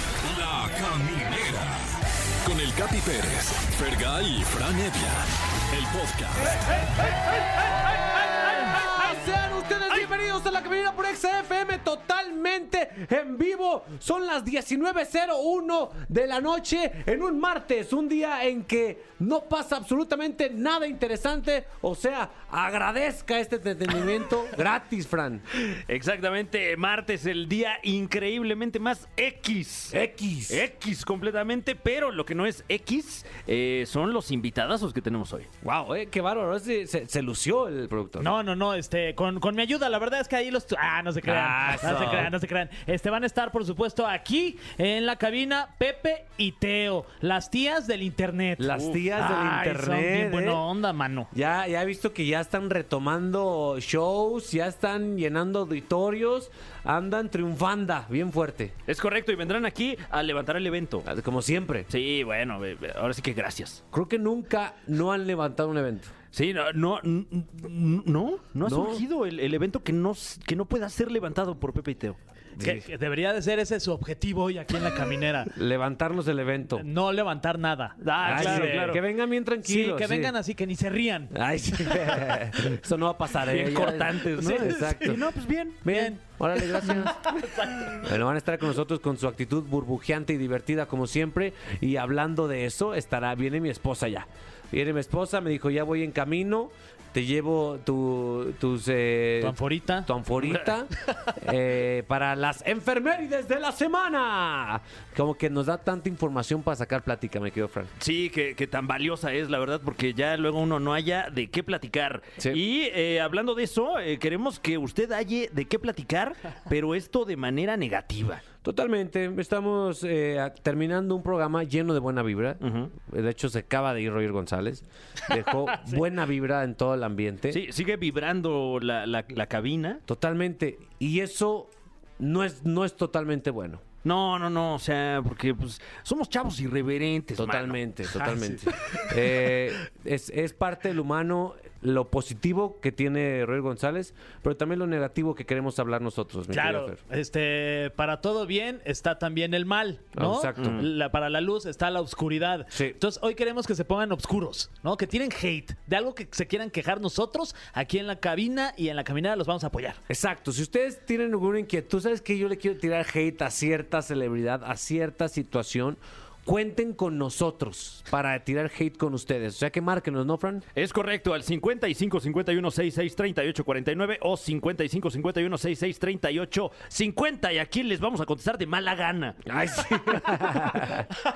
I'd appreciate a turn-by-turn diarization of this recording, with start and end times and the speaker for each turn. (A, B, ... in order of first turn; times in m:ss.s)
0:00.2-0:01.8 A
0:02.4-0:06.8 A
0:07.3-0:25.4 B
0:25.8-0:29.9 C
0:29.9-0:30.7 B
0:30.5-0:35.5 C
0:35.6-0:38.3 B
0:38.2-0:51.3 D
0:41.2-0:42.3 B
0:48.6-0:50.6 B
0:51.3-0:58.8 B
0:58.9-1:01.0 C
1:01.0-1:01.9 B
1:01.9-1:03.8 C
1:03.9-1:06.1 B
1:06.3-1:12.2 C
1:08.6-1:09.0 B
1:12.6-1:12.8 B
1:12.6-1:15.5 D
1:15.5-1:16.8 B
1:16.8-1:19.0 D
1:18.0-1:19.0 C
1:18.2-1:20.3 B
1:19.6-1:21.3 D
1:21.3-1:25.2 B
1:23.6-1:25.8 C
1:24.4-1:28.2 D
1:25.8-1:27.4 B
1:27.9-1:47.9 B
1:39.4-1:40.1 D
1:48.0-1:58.4 C
1:58.6-2:07.6 B
2:02.6-2:02.9 C
2:07.5-2:10.0 C
2:10.1-2:13.8 B
2:14.0-2:18.9 C
2:17.4-2:27.0 B
2:26.5-2:40.0 D
2:30.1-2:30.8 B
2:30.6-2:30.9 C
2:32.7-2:33.0 B
2:40.1-2:50.6 B
2:50.7-2:59.4 C
2:59.4-3:01.1 B